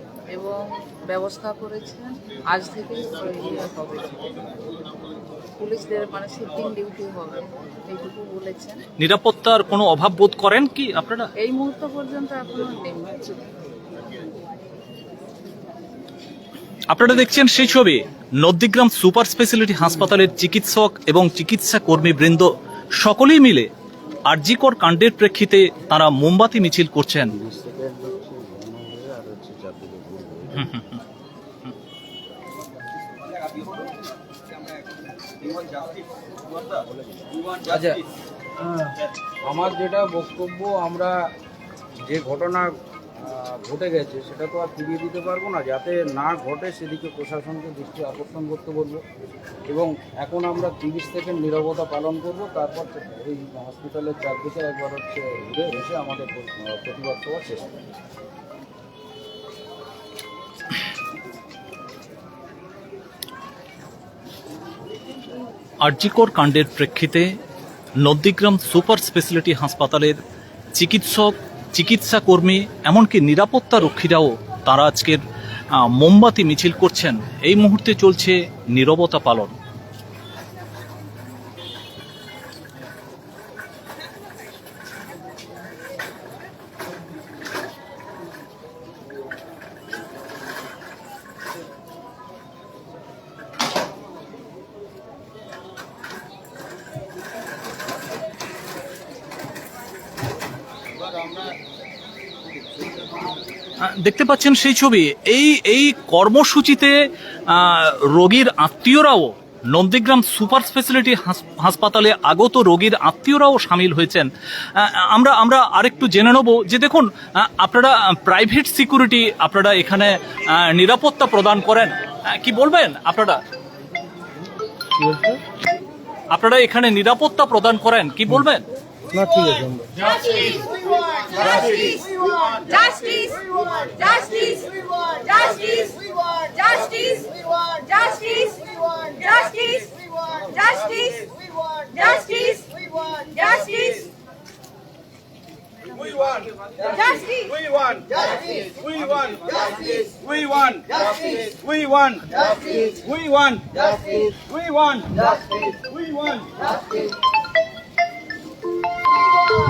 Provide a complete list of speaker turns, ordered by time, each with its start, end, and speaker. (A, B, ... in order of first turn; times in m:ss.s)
0:00.3-0:04.5 A
0:05.6-0:08.8 A
0:09.0-0:11.3 B
0:11.4-0:13.5 A
0:16.9-0:23.7 B
0:24.3-0:27.3 B
0:27.4-0:30.3 C
0:30.6-0:31.0 B
0:36.7-0:38.0 C
0:38.6-0:41.1 C
0:42.1-0:49.0 C
0:49.7-0:57.7 C
1:05.8-1:07.3 B
1:08.0-1:10.2 B
1:10.8-1:15.2 B
1:15.7-1:19.6 B
1:43.8-1:46.9 B
1:47.5-2:03.4 B
2:06.3-2:08.6 B
2:09.2-2:09.8 D
2:11.6-2:12.0 E
2:12.6-2:14.7 E
2:15.2-2:16.0 E
2:16.6-2:19.9 E
2:20.6-2:21.2 E
2:22.0-2:22.7 E
2:23.4-2:24.1 E
2:26.0-2:26.8 D
2:26.9-2:27.6 E
2:27.6-2:36.3 D